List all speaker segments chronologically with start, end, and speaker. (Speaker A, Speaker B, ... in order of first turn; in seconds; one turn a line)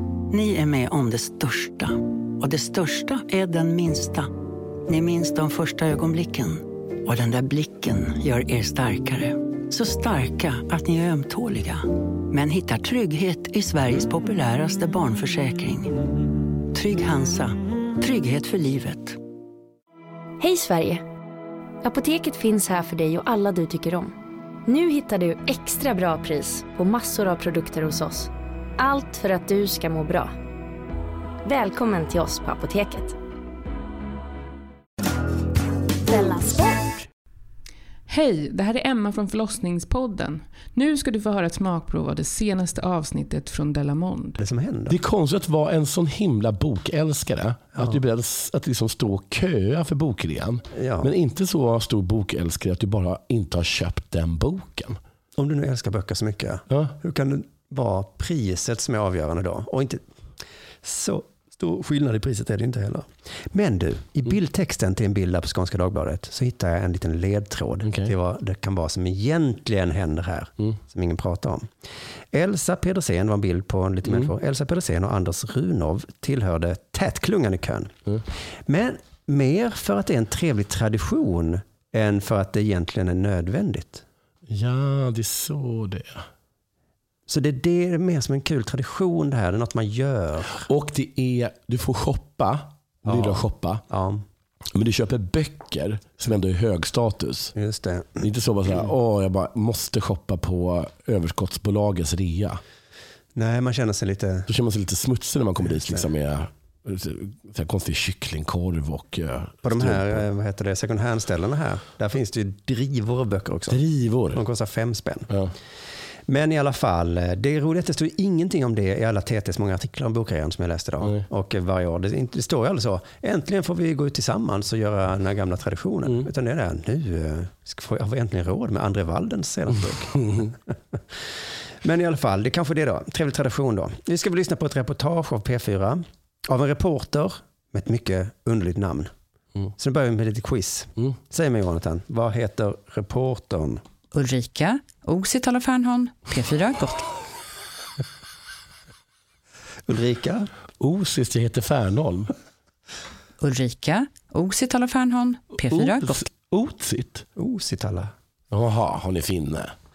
Speaker A: 0.3-4.3
Speaker A: 4.8-19.2
Speaker B: 20.4-21.0
Speaker B: 21.8-24.1
Speaker B: 24.6-30.3
Speaker B: 31.4-33.1
Speaker B: 36.1-37.0
Speaker C: 38.1-44.4
Speaker D: 44.4-45.0
Speaker E: 44.9-55.0
Speaker D: 50.7-51.1
Speaker D: 55.4-60.0
Speaker D: 60.8-71.7
Speaker E: 67.8-68.1
Speaker D: 72.3-77.9
Speaker D: 78.7-84.0
Speaker E: 84.5-86.2
Speaker D: 87.3-90.7
Speaker E: 90.7-93.8
Speaker D: 93.1-94.2
Speaker E: 94.7-97.5
Speaker D: 97.5-98.3
Speaker E: 98.2-102.6
Speaker D: 103.3-104.5
Speaker E: 104.5-110.2
Speaker D: 109.6-113.8
Speaker E: 113.7-114.4
Speaker D: 114.3-115.3
Speaker D: 116.3-130.6
Speaker D: 131.8-139.1
Speaker D: 139.8-143.8
Speaker F: 144.1-147.1
Speaker D: 149.9-150.5
Speaker E: 150.8-152.3
Speaker F: 153.4-156.2
Speaker E: 155.6-157.2
Speaker D: 157.4-158.1
Speaker E: 158.5-159.7